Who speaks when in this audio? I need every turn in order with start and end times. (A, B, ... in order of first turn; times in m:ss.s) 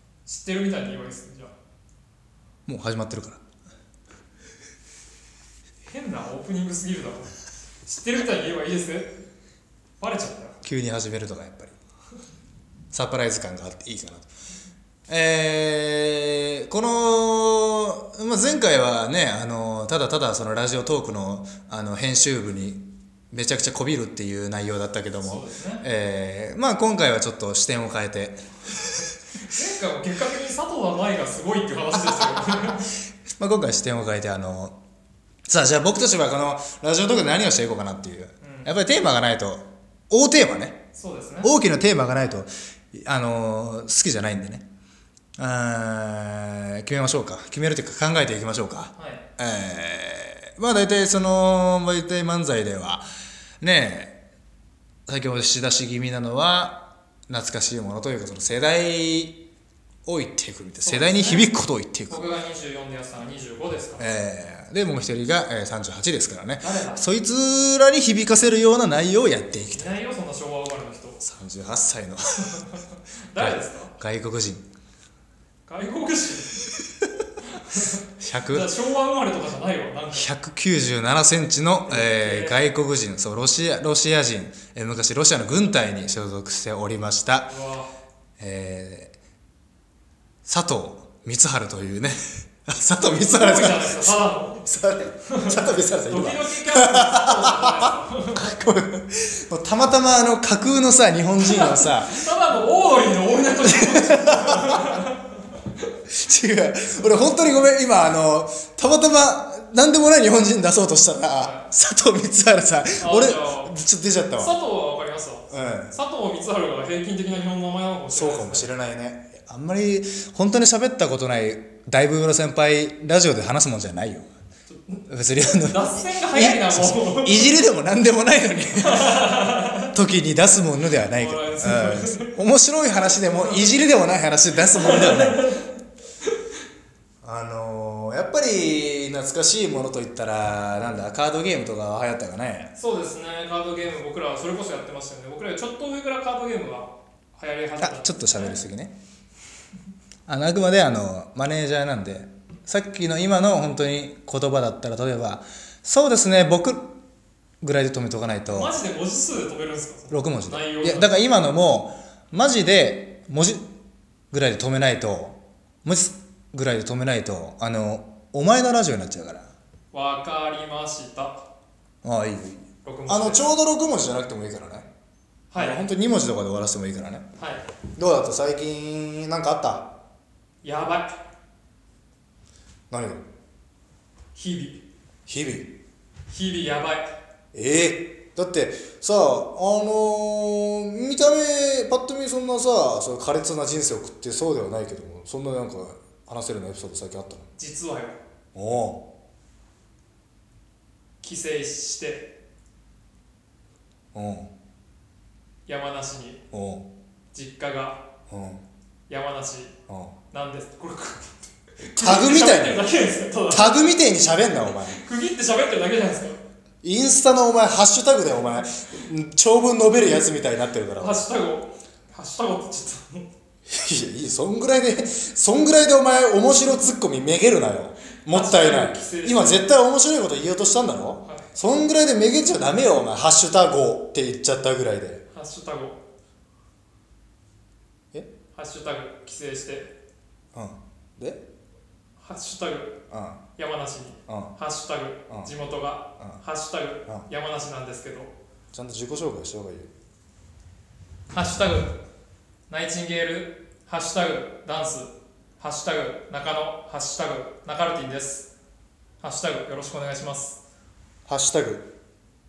0:00.3-0:01.5 A
0:02.7-0:03.4 B
0:05.8-0:09.2 A
0:10.0-0:10.6 A
0:10.6-0:11.8 B
0:12.9-0:14.3 B
0:15.1-0:28.4 B
0:25.2-0:25.8 A
0:29.5-0:32.9 A
0:32.2-0:32.8 B
0:33.4-0:34.8 B
0:35.5-0:40.8 B
0:38.4-0:38.7 A
0:40.9-0:41.5 A
0:41.4-0:44.7 B
0:45.4-0:53.1 B
0:49.0-0:49.2 A
0:53.6-0:54.2 B
0:55.1-0:59.4 B
1:00.1-1:02.2 B
1:00.8-1:01.5 A
1:02.1-1:04.0 A
1:04.0-1:09.9 B
1:06.6-1:07.1 A
1:09.7-1:11.2 A
1:11.2-1:12.7 B
1:12.6-1:13.9 A
1:13.4-1:14.6 B
1:15.7-1:16.6 A
1:17.5-1:20.3 A
1:18.2-1:18.7 B
1:20.1-1:27.6 B
1:21.9-1:22.6 A
1:27.5-1:27.9 A
1:28.4-1:29.1 B
1:30.4-1:42.3 B
1:33.0-1:34.7 A
1:35.3-1:38.5 A
1:41.4-1:45.3 A
1:43.4-1:45.0 B
1:46.1-1:54.6 B
1:47.1-1:47.4 A
1:51.4-1:51.7 A
1:53.0-1:53.8 A
1:54.4-1:58.7 A
1:55.5-1:55.9 B
1:58.1-2:04.3 B
2:04.7-2:05.0 A
2:05.1-2:15.5 B
2:05.6-2:07.5 A
2:08.8-2:09.9 A
2:11.1-2:12.4 A
2:14.7-2:15.7 A
2:17.2-2:22.7 B
2:22.8-2:28.6 A
2:27.8-2:29.0 B
2:30.3-2:36.9 B
2:37.6-2:38.7 B
2:38.5-2:41.1 A
2:40.1-2:43.6 B
2:44.3-2:49.5 B
2:49.9-2:51.4 A
2:52.0-2:54.9 B
2:52.8-2:53.4 A
2:55.5-2:55.8 A
2:55.6-2:57.3 B
2:57.4-2:57.6 A
2:58.0-2:59.9 B
3:00.6-3:01.2 A
3:02.9-3:03.2 B
3:04.4-3:04.8 A
3:05.3-3:05.8 B
3:06.3-3:07.1 A
3:07.5-3:17.5 B
3:17.6-3:18.2 A
3:18.6-3:19.0 B
3:21.2-3:22.3 A
3:24.1-3:24.5 B
3:25.7-3:26.4 A
3:26.5-3:26.9 B
3:27.3-3:28.0 A
3:28.3-3:28.6 B
3:29.1-3:29.7 A
3:29.9-3:30.1 B
3:30.3-3:33.9 A
3:31.8-3:32.8 B
3:33.5-3:35.0 B
3:34.9-3:36.4 A
3:36.8-3:41.2 B
3:41.0-3:43.3 A
3:43.7-3:55.2 B
3:48.3-3:49.7 A
3:55.3-3:56.0 A
3:58.5-3:59.9 A
4:00.5-4:01.4 B
4:02.2-4:03.0 A
4:03.1-4:03.4 B
4:03.6-4:08.3 A
4:04.3-4:04.6 B
4:08.7-4:09.9 B
4:11.3-4:12.0 A
4:12.7-4:18.5 A
4:19.2-4:20.6 A
4:21.3-4:21.9 B